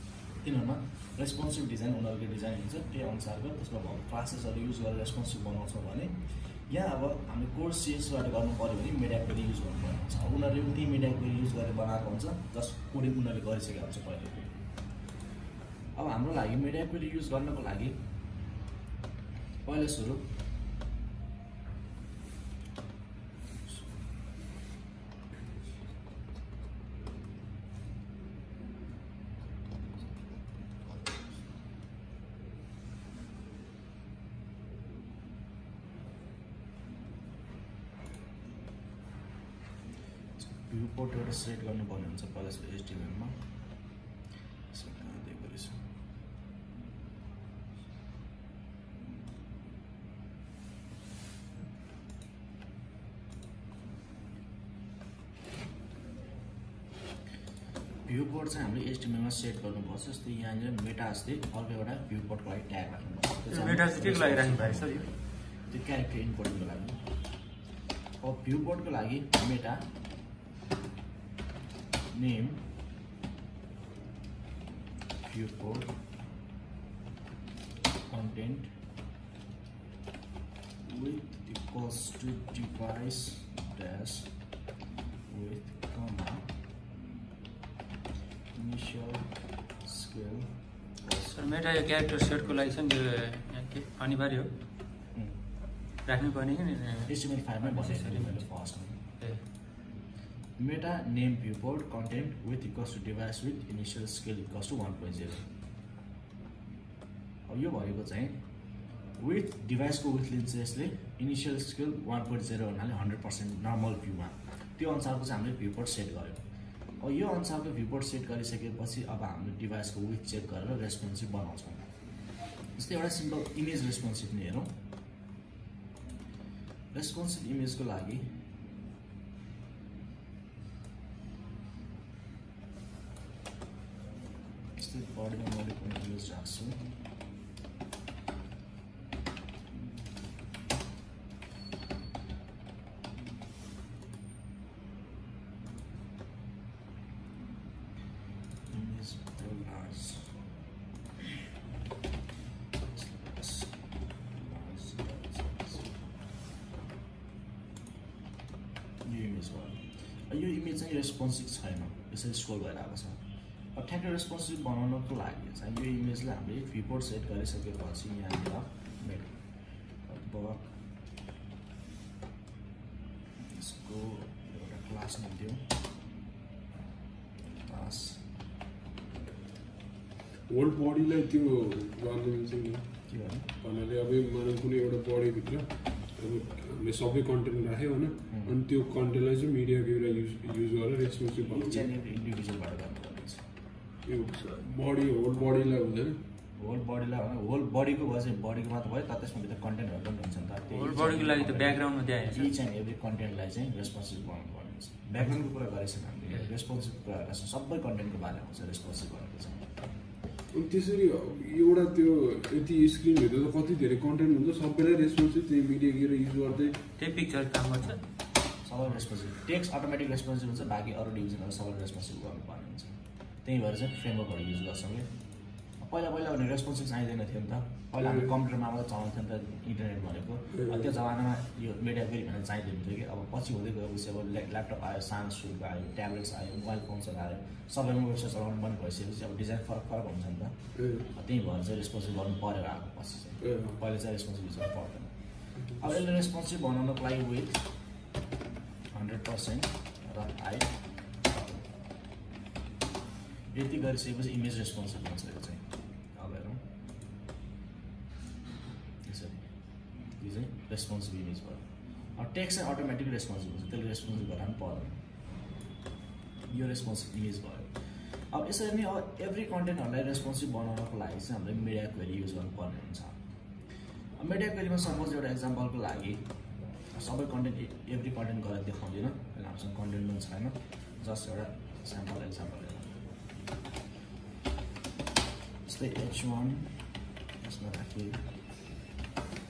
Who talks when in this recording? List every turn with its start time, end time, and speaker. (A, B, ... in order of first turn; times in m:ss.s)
0:00.4-0:06.2 A
0:06.7-0:14.5 A
0:16.0-0:18.0 A
0:19.6-0:20.2 A
0:40.4-0:43.3 A
0:44.7-0:45.8 A
0:58.0-1:05.0 A
1:03.5-1:05.1 B
1:05.7-1:07.0 A
1:08.2-1:09.8 A
1:12.1-1:12.6 A
1:15.2-1:15.9 A
1:18.1-1:18.7 A
1:20.8-1:24.3 A
1:25.3-1:26.4 A
1:28.5-1:32.6 A
1:31.3-1:34.5 B
1:36.0-1:38.4 B
1:37.1-1:39.0 A
1:40.6-1:45.4 A
1:47.4-1:48.4 A
1:49.2-1:56.4 A
1:57.0-2:01.9 A
2:02.8-2:04.7 A
2:06.9-2:08.2 A
2:14.8-2:16.8 A
2:28.7-2:30.3 A
2:32.8-2:33.7 A
2:34.4-2:36.0 A
2:39.0-2:43.2 A
2:43.7-2:49.3 A
2:50.0-2:50.6 A
2:53.5-2:55.6 A
2:57.7-2:58.2 A
3:00.5-3:03.0 C
3:03.1-3:03.5 A
3:03.6-3:11.9 C
3:11.5-3:13.4 A
3:14.0-3:16.2 C
3:16.6-3:29.6 A
3:20.7-3:22.5 B
3:30.5-3:36.8 C
3:37.0-3:38.0 B
3:38.6-3:45.1 A
3:45.8-4:00.5 A
3:48.0-3:48.3 C
3:50.6-3:50.9 C
4:00.7-4:01.1 C
4:01.1-4:05.1 A
4:03.4-4:03.8 C
4:05.7-4:07.6 A
4:08.9-4:11.6 A
4:13.5-4:16.6 A
4:19.0-4:19.4 A
4:20.2-4:21.6 A
4:22.1-4:25.0 A
4:26.5-4:27.7 A
4:28.3-4:33.2 A
4:34.2-4:36.3 A
4:36.9-4:42.9 A
4:45.6-4:46.8 A
4:47.4-4:48.2 A